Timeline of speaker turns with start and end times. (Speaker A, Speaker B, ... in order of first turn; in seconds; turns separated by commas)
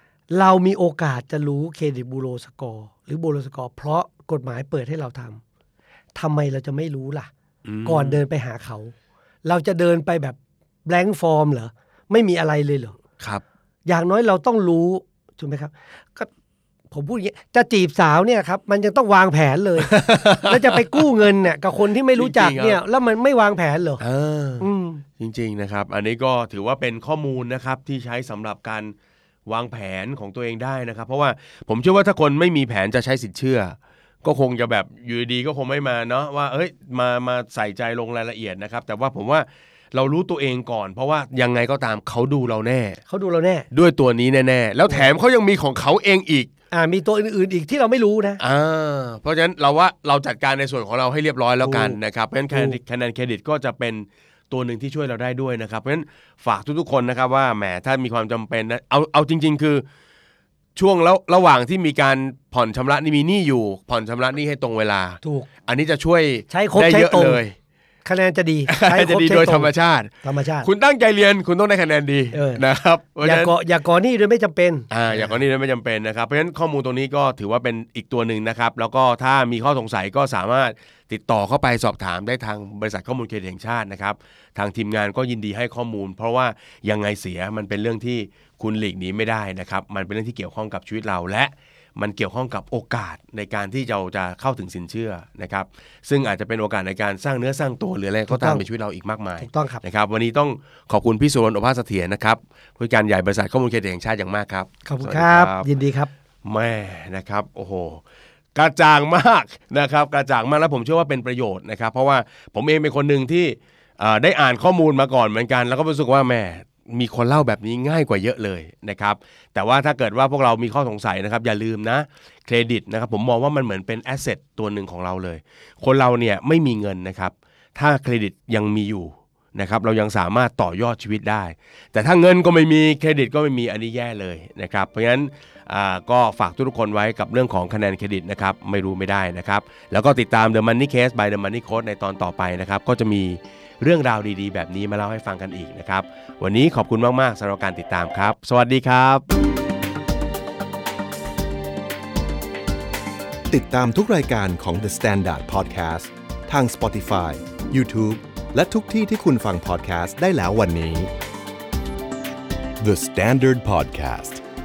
Speaker A: 0.3-5.4, Speaker A: 6.1-7.3, Speaker B: 7.6-8.2, Speaker A: 7.8-8.9, Speaker A: 9.4-13.0, Speaker A: 13.8-16.3, Speaker A: 16.9-24.0, Speaker B: 19.9-21.0, Speaker B: 22.1-22.8, Speaker B: 24.0-28.9, Speaker A: 24.6-25.0, Speaker B: 29.4-43.0, Speaker A: 43.1-43.6, Speaker B: 43.7-46.5, Speaker A: 46.7-48.4, Speaker B: 48.4-59.8, Speaker A: 51.6-52.0, Speaker A: 52.5-52.8, Speaker B: 60.8-67.5, Speaker A: 65.2-65.5, Speaker A: 66.5-67.4, Speaker A: 68.0-69.7, Speaker B: 68.7-73.5, Speaker A: 70.2-70.7, Speaker A: 72.3-72.6, Speaker A: 73.2-75.4, Speaker B: 74.9-105.7, Speaker A: 98.3-98.6, Speaker A: 99.4-99.8, Speaker A: 104.8-106.1, Speaker B: 106.4-108.0, Speaker B: 108.5-149.2, Speaker C: 153.5-161.1, Speaker C: 162.8-164.4